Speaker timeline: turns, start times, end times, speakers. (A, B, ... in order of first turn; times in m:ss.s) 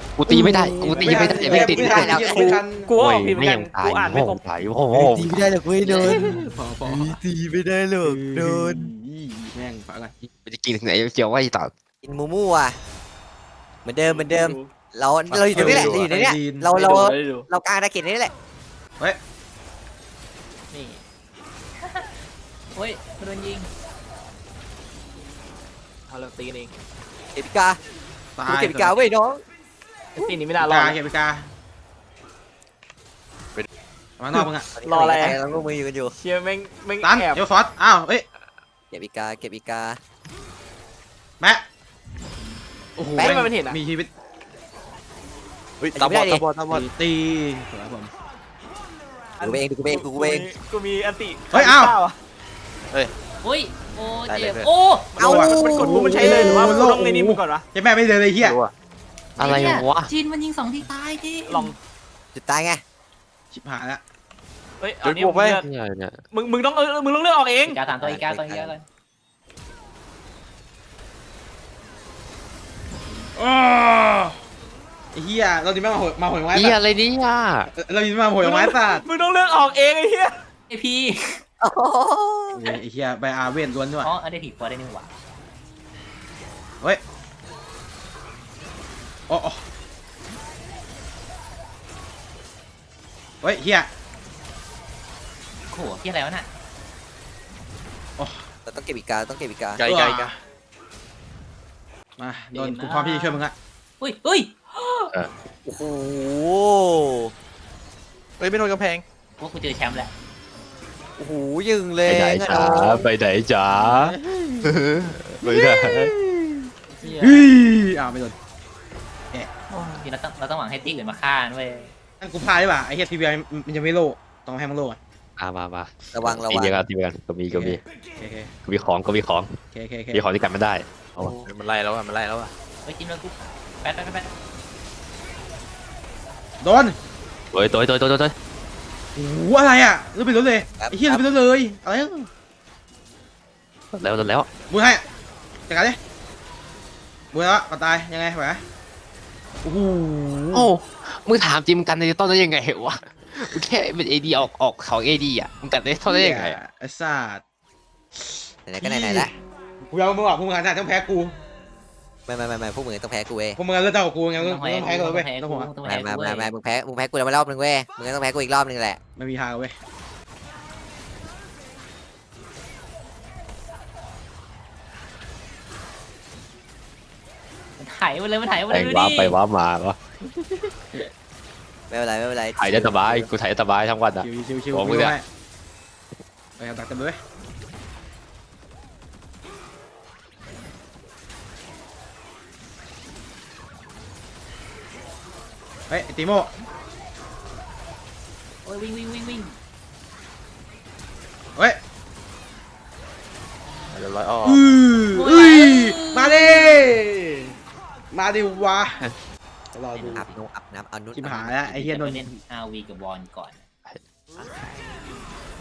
0:00.2-0:02.4 A
0:00.3-0:02.9 B
0:01.2-0:02.6 C
0:02.1-0:04.4 D
0:03.0-0:05.5 A
0:04.9-0:05.3 B
0:05.3-0:06.3 C
0:05.9-0:07.2 B
0:07.2-0:08.9 C
0:08.0-0:10.1 B
0:10.4-0:11.7 A
0:12.0-0:12.8 C
0:13.8-0:18.3 C
0:14.1-0:14.7 D
0:15.3-0:16.1 E
0:15.5-0:16.7 B
0:16.7-0:17.5 D
0:20.7-0:21.0 D
0:21.8-0:22.1 F
0:22.8-0:23.7 F
0:26.1-0:26.7 D
0:27.4-0:27.8 C
0:28.4-0:29.0 B
0:28.5-0:29.4 C
0:30.2-0:31.0 D
0:30.6-0:31.5 B
0:34.2-0:34.7 B
0:34.7-0:36.2 C
0:34.8-0:35.4 D
0:36.2-0:37.4 D
0:37.0-0:38.2 B
0:38.9-0:40.0 C
0:41.4-0:41.6 B
0:43.0-0:44.1 B
0:43.2-0:43.5 C
0:43.2-0:43.8 D
0:45.8-0:46.9 E
0:46.0-0:46.4 C
0:46.7-0:48.1 B
0:49.4-0:52.2 D
0:49.4-0:50.5 C
0:51.5-0:52.0 B
0:53.4-0:55.1 F
0:54.3-0:54.7 E
0:55.2-0:57.6 D
0:55.2-0:56.4 C
0:55.2-0:58.6 B
0:58.4-0:58.7 E
0:59.4-1:00.1 A
0:59.4-1:01.7 F
1:01.5-1:01.8 D
1:02.3-1:02.8 C
1:03.5-1:04.0 B
1:04.8-1:05.6 D
1:05.0-1:05.6 E
1:05.6-1:06.2 A
1:06.3-1:07.8 D
1:07.6-1:08.8 F
1:08.0-1:08.8 C
1:13.4-1:14.4 B
1:15.1-1:16.8 B
1:16.5-1:17.7 A
1:17.8-1:19.0 B
1:18.4-1:20.4 D
1:20.7-1:21.4 F
1:21.6-1:22.8 C
1:22.6-1:24.1 B
1:24.0-1:25.2 F
1:29.3-1:29.6 B
1:33.4-1:33.9 B
1:35.7-1:36.5 F
1:38.2-1:38.5 B
1:38.7-1:39.8 C
1:39.8-1:40.3 E
1:39.8-1:40.3 B
1:42.2-1:43.5 B
1:42.5-1:43.4 D
1:44.0-1:45.1 F
1:45.6-1:47.3 C
1:48.4-1:49.0 E
1:49.4-1:50.1 F
1:51.2-1:53.1 C
1:52.1-1:56.1 A
1:53.7-1:54.7 B
1:55.4-1:56.7 B
1:57.0-1:57.5 D
1:57.2-1:58.4 B
1:59.7-2:00.1 D
2:00.0-2:01.9 F
2:02.2-2:05.0 B
2:05.4-2:07.8 A
2:06.1-2:06.8 C
2:07.5-2:08.5 B
2:08.6-2:09.6 A
2:09.7-2:10.2 B
2:10.1-2:11.4 A
2:11.2-2:12.5 E
2:12.8-2:14.3 F
2:16.6-2:17.0 B
2:17.5-2:18.3 A
2:19.2-2:22.3 B
2:20.8-2:21.2 C
2:23.9-2:24.5 A
2:24.7-2:25.0 B
2:25.7-2:26.0 B
2:27.3-2:28.6 B
2:29.6-2:30.7 B
2:30.5-2:36.6 A
2:36.1-2:37.4 B
2:38.7-2:39.3 C
2:38.8-2:39.3 B
2:39.9-2:41.3 B
2:42.3-2:43.6 C
2:43.6-2:45.7 B
2:44.4-2:46.5 F
2:45.8-2:49.0 C
2:49.2-2:49.8 B
2:57.8-2:59.4 F
2:58.7-3:00.0 A
3:01.9-3:03.3 C
3:02.6-3:05.2 A
3:04.2-3:05.2 B
3:06.6-3:07.2 B
3:15.9-3:16.5 B
3:18.6-3:19.6 F
3:23.9-3:24.7 E
3:24.4-3:27.5 B
3:25.2-3:26.9 F
3:28.1-3:29.0 B
3:29.7-3:30.3 B
3:30.0-3:31.8 C
3:31.2-3:32.3 B
3:31.8-3:33.6 F